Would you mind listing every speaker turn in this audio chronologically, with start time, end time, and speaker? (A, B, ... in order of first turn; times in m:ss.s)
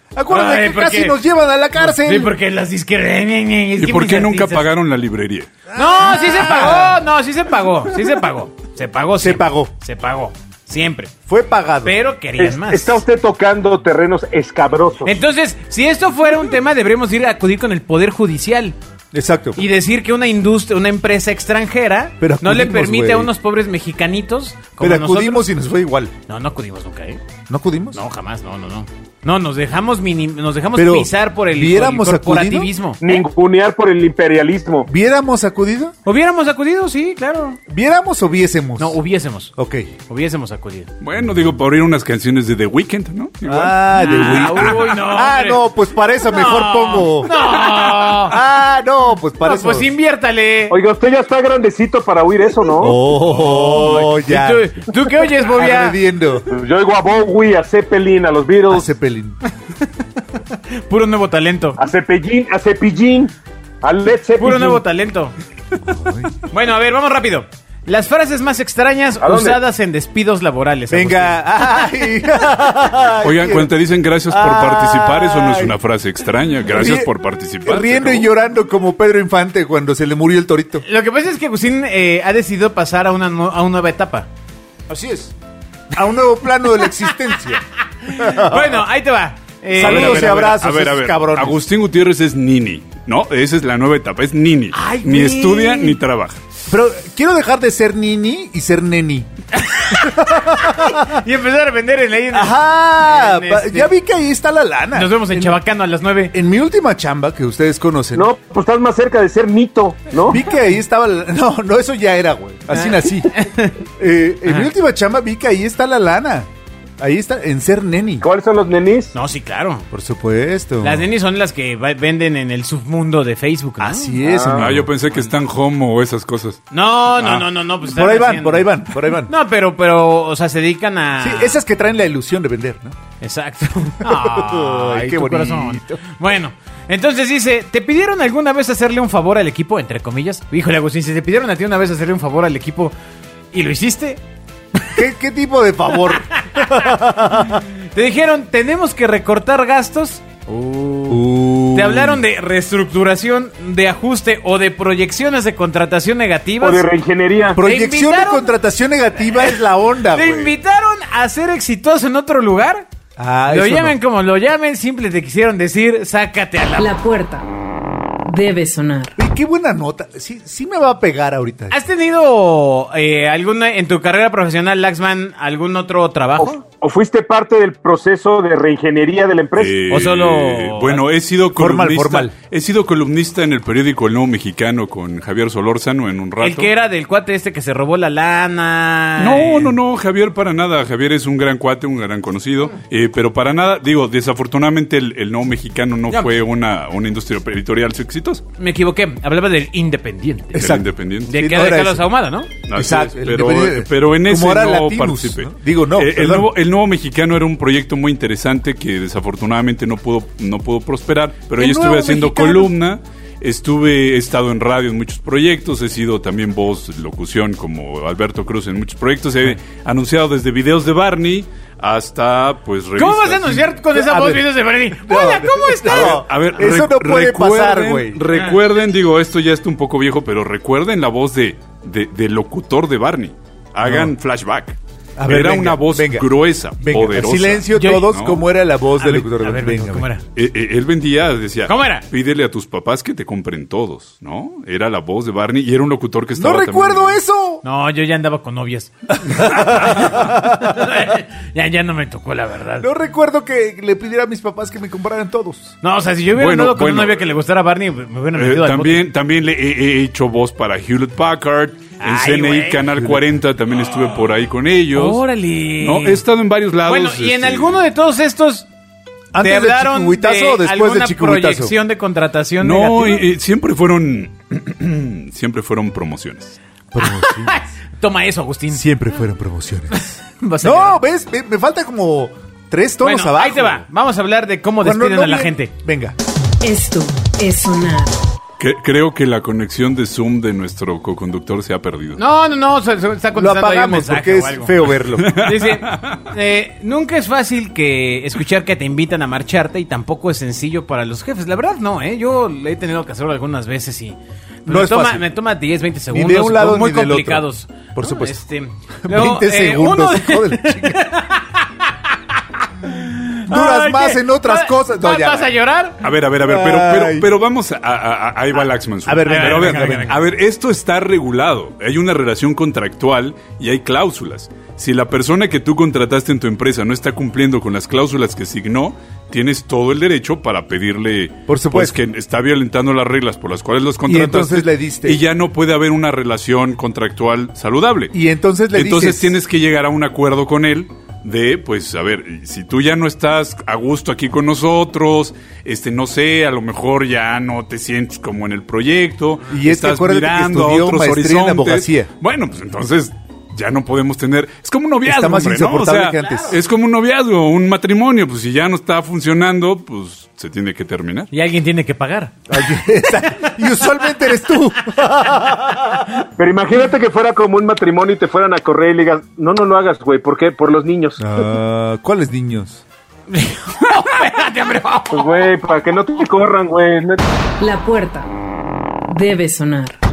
0:00.2-0:02.3 A
0:00.3-0:01.2 B
0:01.8-0:04.7 B
0:03.8-0:05.6 C
0:05.7-0:11.2 B
0:05.8-0:07.0 A
0:09.2-0:09.7 A
0:11.3-0:11.9 A
0:11.8-0:13.0 B
0:12.4-0:15.2 D
0:15.0-0:18.8 B
0:19.1-0:19.6 A
0:19.6-0:25.4 B
0:22.2-0:23.3 A
0:24.8-0:26.1 A
0:26.3-0:27.2 B
0:27.5-0:28.0 A
0:27.9-0:33.2 B
0:30.8-0:32.7 A
0:33.0-0:34.9 D
0:34.9-0:36.0 A
0:36.0-0:37.6 B
0:37.7-0:39.0 A
0:38.8-0:39.5 B
0:39.6-0:39.9 A
0:40.1-0:40.9 B
0:41.0-0:45.0 C
0:43.4-0:47.6 A
0:44.0-0:45.6 B
0:46.3-0:48.4 B
0:48.2-0:49.9 A
0:49.4-0:50.8 B
0:50.7-0:53.0 D
0:52.8-0:54.7 A
0:53.2-0:56.0 B
0:55.3-0:56.5 A
0:56.5-0:58.9 D
0:58.7-0:59.4 A
1:00.7-1:01.8 B
1:01.8-1:04.8 D
1:04.4-1:05.4 B
1:05.8-1:06.4 A
1:06.5-1:11.4 B
1:09.2-1:09.6 D
1:10.9-1:13.7 A
1:13.2-1:18.3 C
1:14.3-1:15.8 A
1:16.7-1:17.1 A
1:17.6-1:20.8 A
1:20.8-1:24.3 B
1:24.9-1:25.3 A
1:25.9-1:28.9 A
1:28.0-1:30.6 B
1:29.7-1:31.6 A
1:29.7-1:36.4 C
1:34.7-1:36.0 B
1:36.7-1:41.2 A
1:39.5-1:43.9 B
1:42.3-1:45.6 A
1:44.9-1:46.3 B
1:46.3-1:48.3 A
1:48.2-1:50.4 D
1:50.3-1:53.3 A
1:52.7-1:53.8 B
1:54.0-1:58.3 A
1:58.2-1:59.1 D
1:59.1-1:59.9 B
1:59.9-2:01.1 A
2:00.8-2:04.2 B
2:03.8-2:04.9 A
2:04.2-2:04.7 D
2:04.5-2:06.6 C
2:06.7-2:11.6 B
2:07.2-2:07.5 C
2:07.8-2:09.3 A
2:11.2-2:13.0 A
2:13.2-2:22.9 B
2:14.0-2:16.0 A
2:23.5-2:24.2 B
2:24.8-2:25.0 B
2:24.9-2:27.6 A
2:26.1-2:26.9 B
2:27.4-2:36.9 B
2:31.1-2:32.2 A
2:36.6-2:37.6 D
2:37.6-2:40.6 A
2:37.6-2:38.5 B
2:39.3-2:42.9 B
2:43.2-2:44.0 A
2:43.5-2:46.9 B
2:46.8-2:47.5 E
2:48.2-2:49.2 E
2:49.2-2:51.8 A
2:51.7-2:56.6 B
2:56.4-2:59.8 D
2:59.6-3:06.7 C
2:59.9-3:01.0 B
3:01.6-3:02.3 A
3:06.4-3:09.7 B
3:09.2-3:18.4 C
3:18.6-3:20.7 B
3:20.5-3:21.3 C
3:20.5-3:22.1 A
3:21.3-3:22.6 B
3:22.7-3:43.7 C
3:22.7-3:26.5 A
3:31.6-3:32.7 B
3:43.0-3:46.2 B
3:43.9-3:48.2 A
3:45.8-3:58.4 C
3:53.8-3:54.1 A
3:55.2-4:00.1 A
3:57.7-3:58.1 B
3:59.0-4:00.2 B
4:00.4-4:07.2 C
4:01.7-4:02.1 B
4:06.4-4:07.6 A
4:07.6-4:12.9 B
4:09.2-4:10.7 A
4:12.8-4:15.7 A
4:15.8-4:19.0 B
4:16.4-4:17.4 C
4:18.4-4:25.2 C
4:22.0-4:22.8 B
4:23.0-4:23.2 A
4:24.9-4:26.2 B
4:25.8-4:27.8 C
4:26.9-4:28.7 B
4:29.3-4:31.7 A
4:29.4-4:33.3 B
4:32.6-4:36.6 C
4:36.9-4:37.5 A
4:37.0-4:38.8 B
4:38.7-4:40.1 A
4:39.9-4:41.0 B
4:40.6-4:43.8 A
4:43.0-4:45.7 B
4:44.8-4:46.2 A
4:46.6-4:48.2 E
4:48.6-4:52.2 C
4:52.2-4:54.8 B
4:53.4-4:55.4 A
4:55.2-4:56.3 C
4:55.3-5:16.0 B
5:04.7-5:05.3 A
5:06.1-5:08.4 A
5:09.0-5:11.0 A
5:13.5-5:15.5 A
5:16.0-5:38.1 C
5:16.4-5:17.3 A
5:19.1-5:20.2 A
5:19.2-5:20.2 B
5:31.5-5:32.0 A
5:34.1-5:35.2 A
5:38.1-5:39.3 A
5:38.7-6:01.3 C
5:49.5-5:52.1 A
5:55.0-5:56.6 A
5:56.2-5:56.5 B
6:01.3-6:02.4 B
6:02.5-6:06.1 A
6:06.4-6:11.3 D
6:11.2-6:12.8 A
6:13.3-6:15.3 B
6:15.1-6:17.2 D
6:17.6-6:18.3 E
6:19.1-6:20.0 E